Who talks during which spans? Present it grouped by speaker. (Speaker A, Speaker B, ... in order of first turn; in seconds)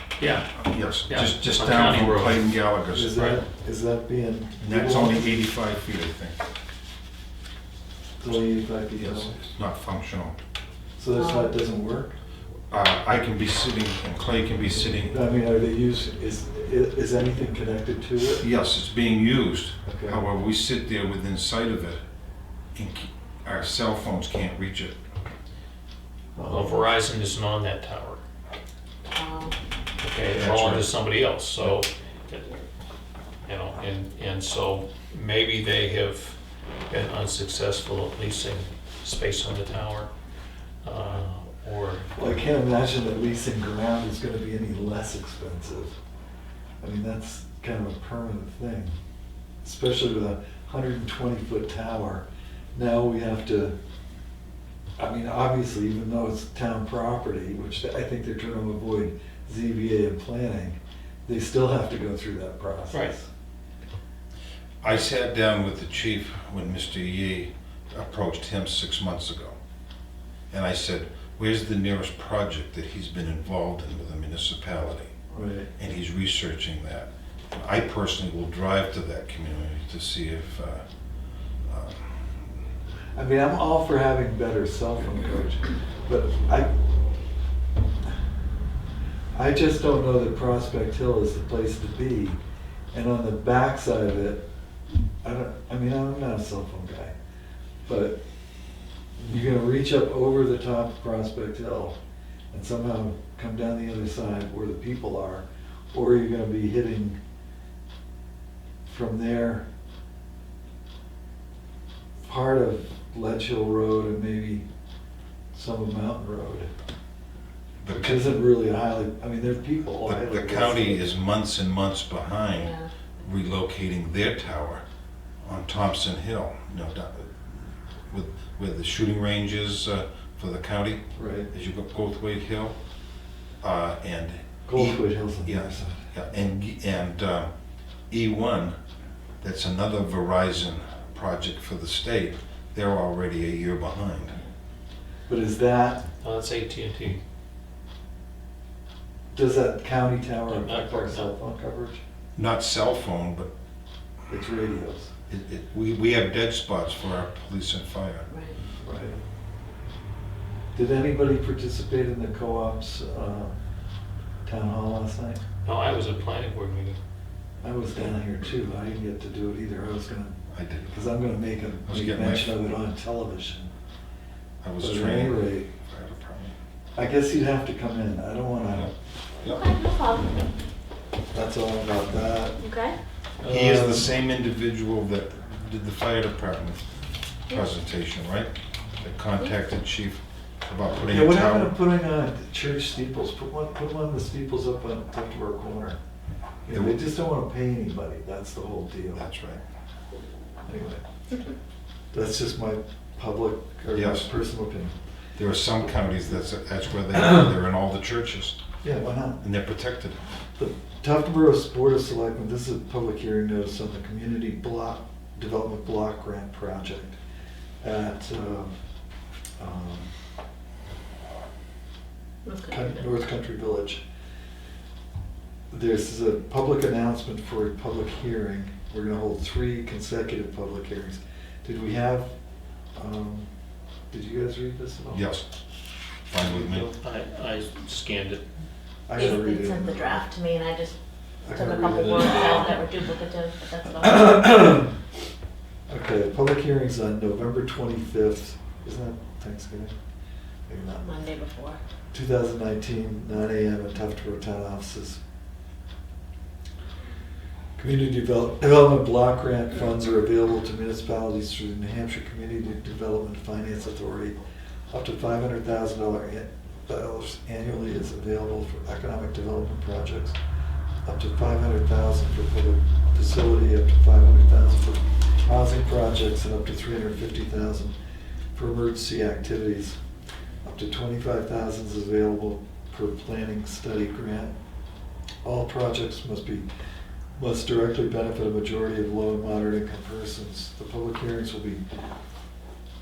Speaker A: 0.2-0.5, 1.1-2.5, 3.1-3.4, 26.4-28.2, 30.0-32.6, 33.5-36.4, 36.9-40.1, 40.8-42.1, 146.2-147.2, 150.5-151.3, 165.6-167.0, 236.4-238.4, 241.7-242.8
Speaker B: 0.6-3.1, 4.6-6.4, 9.0-10.3, 12.7-15.2, 18.4-22.0, 22.8-24.9, 30.3-30.9, 64.8-69.6, 70.5-75.1, 75.8-80.8, 81.7-82.3, 117.8-118.4, 120.0-124.8, 125.4-127.6, 128.1-132.8, 133.6-137.5, 138.1-138.8, 139.4-144.4, 152.4-153.5, 155.3-158.3, 170.5-171.1, 171.9-172.6, 174.6-176.5, 183.5-186.8, 187.5-191.8, 196.7-197.0, 199.2-199.6, 203.9-204.3, 205.4-208.6, 209.4-210.2, 235.1-235.5, 236.3-236.9
Speaker C: 2.9-5.4, 8.2-9.4, 11.0-12.2, 14.8-18.4, 19.9-20.2, 26.4-26.8, 42.2-46.0, 46.8-49.0, 49.6-53.7, 55.0-63.3, 75.3-75.7, 83.2-86.7, 89.3-92.4, 92.9-94.4, 95.2-97.1, 97.9-98.2, 99.2-102.0, 102.5-107.2, 108.8-109.7, 112.2-114.7, 115.5-116.7, 117.9-121.1, 131.2-131.5, 134.7-136.0, 145.3-146.0, 149.3-152.0, 154.3-155.1, 158.8-159.2, 160.7-163.6, 164.4-165.4, 167.6-173.7, 174.8-175.7, 177.0-178.9, 181.3-182.6, 183.5-184.0, 191.0-196.0, 196.7-199.2, 200.7-201.0, 202.1-204.9, 208.8-209.4, 210.6-217.2, 217.8-218.7, 219.6-220.1, 222.7-224.0, 225.7-232.3, 232.9-233.5, 234.1-235.2, 239.1-240.3, 241.4-242.6, 244.0-244.9, 245.9-249.9, 250.7-251.1, 252.1-255.2, 257.8-264.4, 264.9-270.4, 271.1-277.9, 278.6-280.0, 280.6-284.6, 285.4-286.7, 287.4-291.9
Speaker D: 11.2-11.5, 29.1-29.6, 122.5-122.9, 158.3-158.6, 179.5-180.4, 182.6-183.0, 222.4-223.1, 239.2-241.0, 241.5-244.7, 251.0-251.8